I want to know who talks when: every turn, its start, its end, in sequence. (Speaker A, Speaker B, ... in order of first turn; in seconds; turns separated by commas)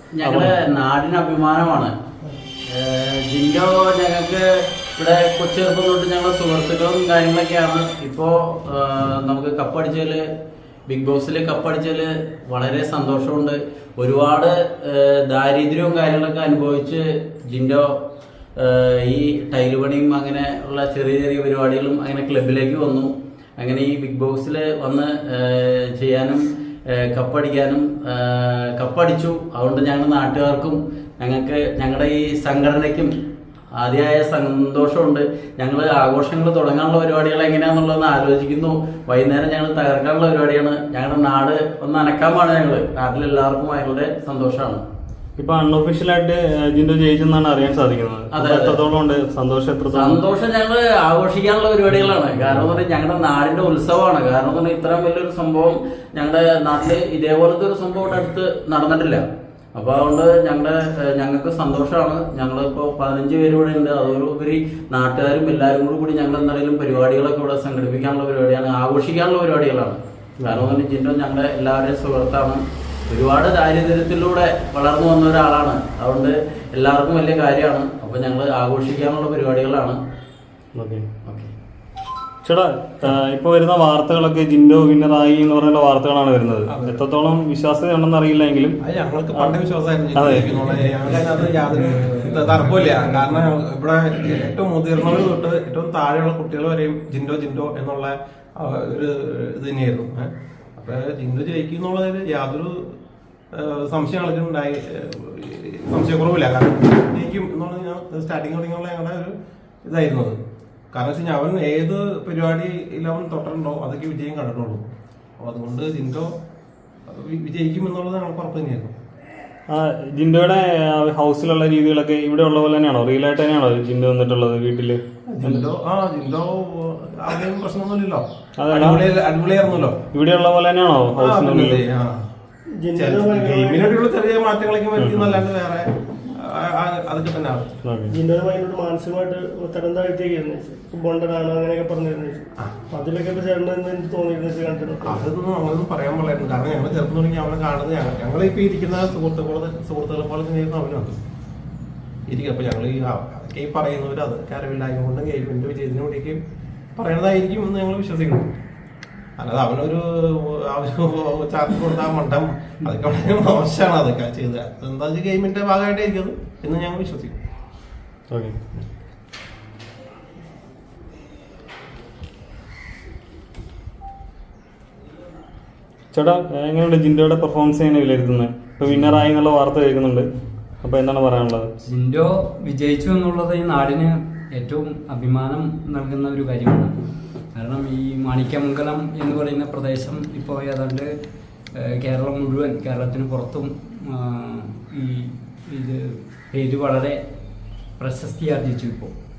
Speaker A: 0.2-1.9, Speaker B: 0.2-0.6, Speaker A: 2.7-4.4, Speaker A: 5.0-10.2, Speaker A: 10.9-17.9, Speaker A: 18.6-26.4, Speaker A: 26.9-33.1, Speaker A: 33.8-44.8, Speaker B: 45.4-50.2, Speaker A: 48.3-48.8, Speaker A: 49.9-59.2, Speaker B: 52.4-52.7, Speaker A: 59.7-80.0, Speaker B: 70.4-70.7, Speaker B: 80.7-81.0, Speaker A: 81.2-81.5, Speaker B: 82.4-88.8, Speaker C: 86.7-87.0, Speaker C: 88.9-103.0, Speaker B: 90.1-91.8, Speaker C: 103.5-109.3, Speaker C: 109.8-110.4, Speaker C: 110.9-114.9, Speaker C: 115.4-116.3, Speaker C: 117.1-118.9, Speaker B: 119.7-125.7, Speaker C: 125.3-130.0, Speaker B: 128.6-129.1, Speaker B: 130.1-131.9, Speaker C: 131.1-132.2, Speaker D: 132.7-134.1, Speaker C: 132.9-137.7, Speaker B: 134.9-135.4, Speaker B: 137.8-138.1, Speaker D: 138.1-145.3, Speaker C: 145.0-151.2, Speaker C: 152.3-156.4, Speaker C: 156.9-158.5, Speaker C: 159.4-167.3, Speaker B: 168.3-168.6, Speaker B: 176.1-180.2, Speaker B: 180.8-181.7, Speaker E: 181.8-186.9, Speaker E: 187.5-191.1, Speaker E: 191.8-197.2, Speaker E: 198.0-199.1